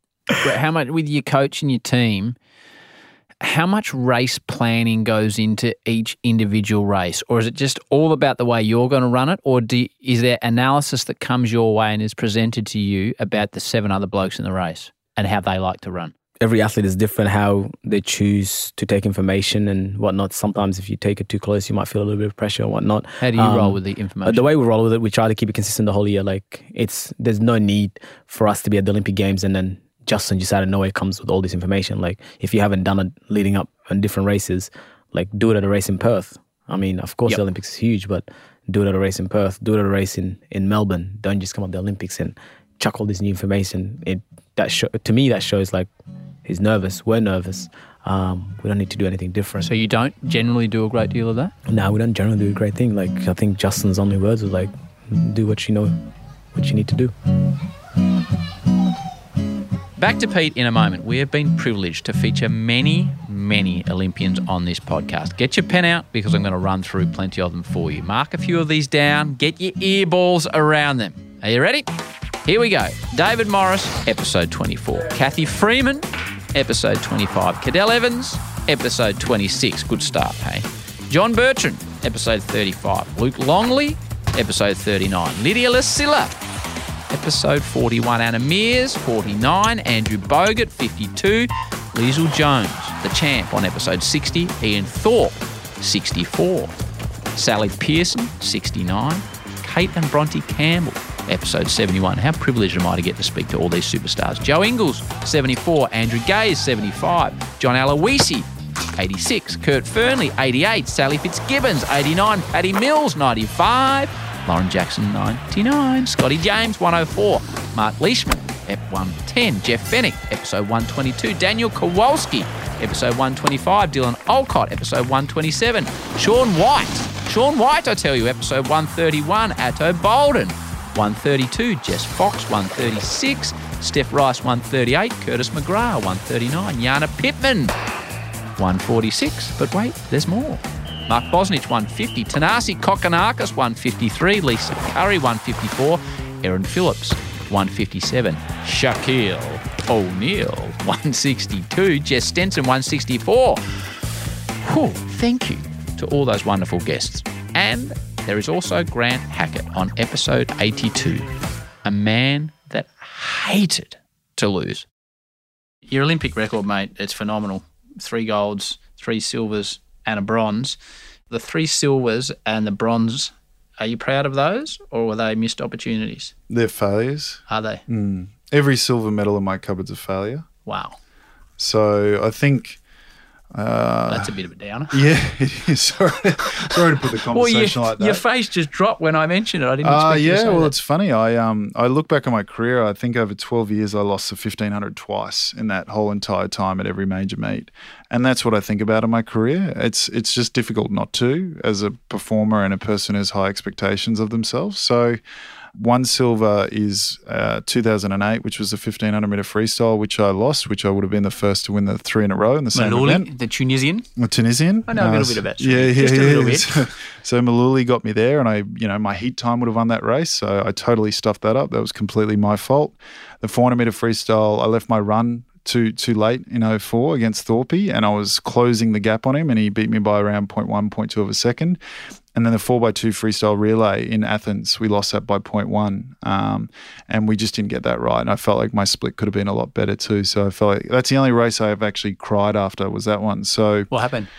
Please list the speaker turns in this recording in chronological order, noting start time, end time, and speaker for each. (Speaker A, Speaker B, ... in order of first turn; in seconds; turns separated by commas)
Speaker A: 0.4-2.4, Speaker A: 3.4-16.1, Speaker B: 16.4-45.9, Speaker A: 23.2-24.5, Speaker B: 46.4-49.7, Speaker A: 49.6-51.5, Speaker B: 51.7-56.0, Speaker B: 56.5-57.1, Speaker A: 60.0-71.9, Speaker A: 72.4-86.4, Speaker A: 87.1-96.7, Speaker A: 97.3-137.7, Speaker A: 138.6-153.8, Speaker A: 154.6-161.3, Speaker A: 161.8-164.9, Speaker A: 165.9-170.8, Speaker A: 171.3-176.3, Speaker C: 176.5-180.4, Speaker A: 177.5-177.8, Speaker A: 180.6-181.0, Speaker C: 181.6-182.8, Speaker C: 183.5-184.3, Speaker A: 184.1-185.0, Speaker C: 184.9-188.2, Speaker A: 187.3-190.7, Speaker C: 189.8-205.2, Speaker C: 205.8-213.3, Speaker A: 212.7-214.1, Speaker C: 214.2-231.8, Speaker A: 214.9-216.7, Speaker C: 232.3-243.9, Speaker A: 243.9-244.3